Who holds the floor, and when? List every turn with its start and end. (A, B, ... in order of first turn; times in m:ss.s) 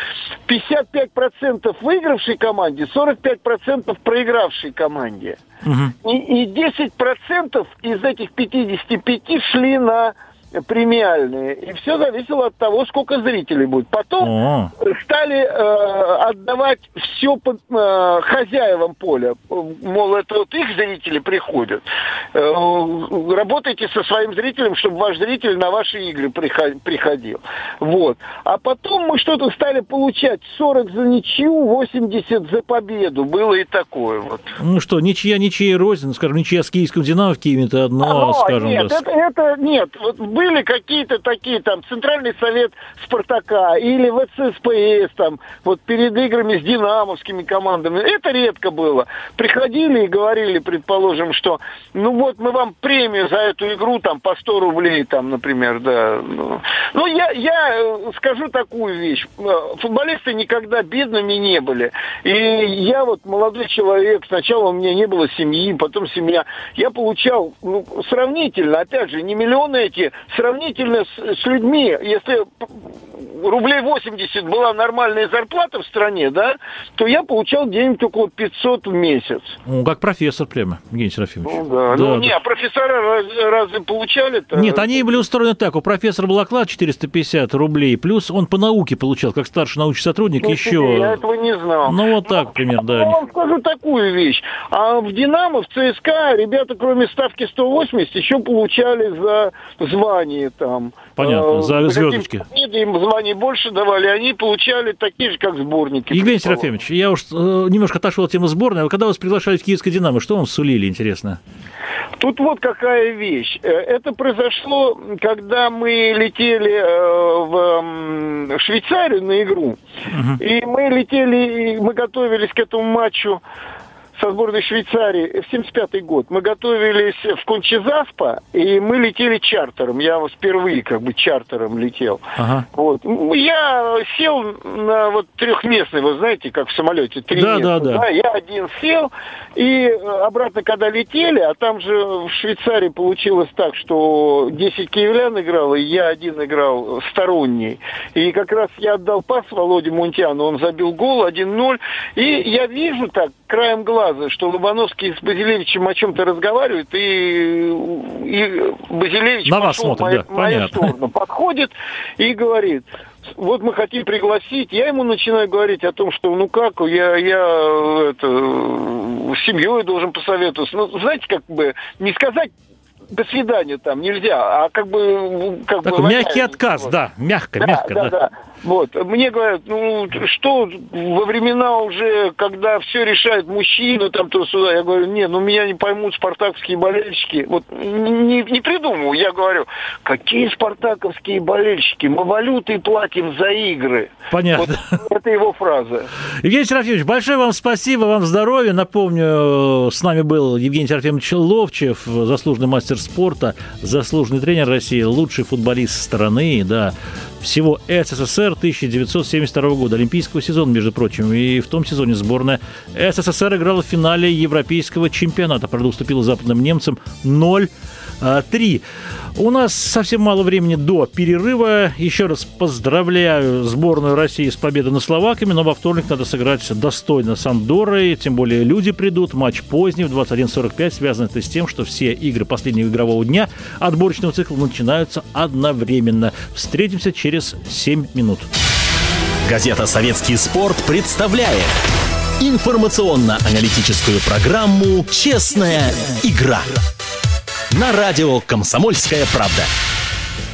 0:00.5-0:05.4 A
0:05.6-0:05.9 B
0:06.0-0:21.8 A
0:14.2-0:14.7 B
0:22.3-0:34.5 A
0:34.6-0:39.0 B
0:38.0-1:19.6 A
1:19.6-1:22.3 B
1:21.4-1:25.2 A
1:24.5-1:31.2 B
1:30.4-1:46.7 A
1:31.8-1:33.2 B
1:41.2-1:42.4 B
1:46.1-1:51.4 B
1:52.2-1:59.8 A
2:00.1-2:00.4 B
2:00.4-2:03.4 A
2:04.2-2:12.2 A
2:12.4-2:12.7 B
2:12.7-2:52.5 A
2:17.3-2:18.0 B
2:39.4-2:40.9 B
2:53.1-2:56.6 A
2:55.8-2:58.1 B
2:57.6-3:16.1 A
3:14.3-3:15.0 B
3:16.3-3:38.8 B
3:39.3-3:58.5 B
3:59.4-4:01.7 C
4:02.4-4:06.8 C
4:07.7-4:09.7 C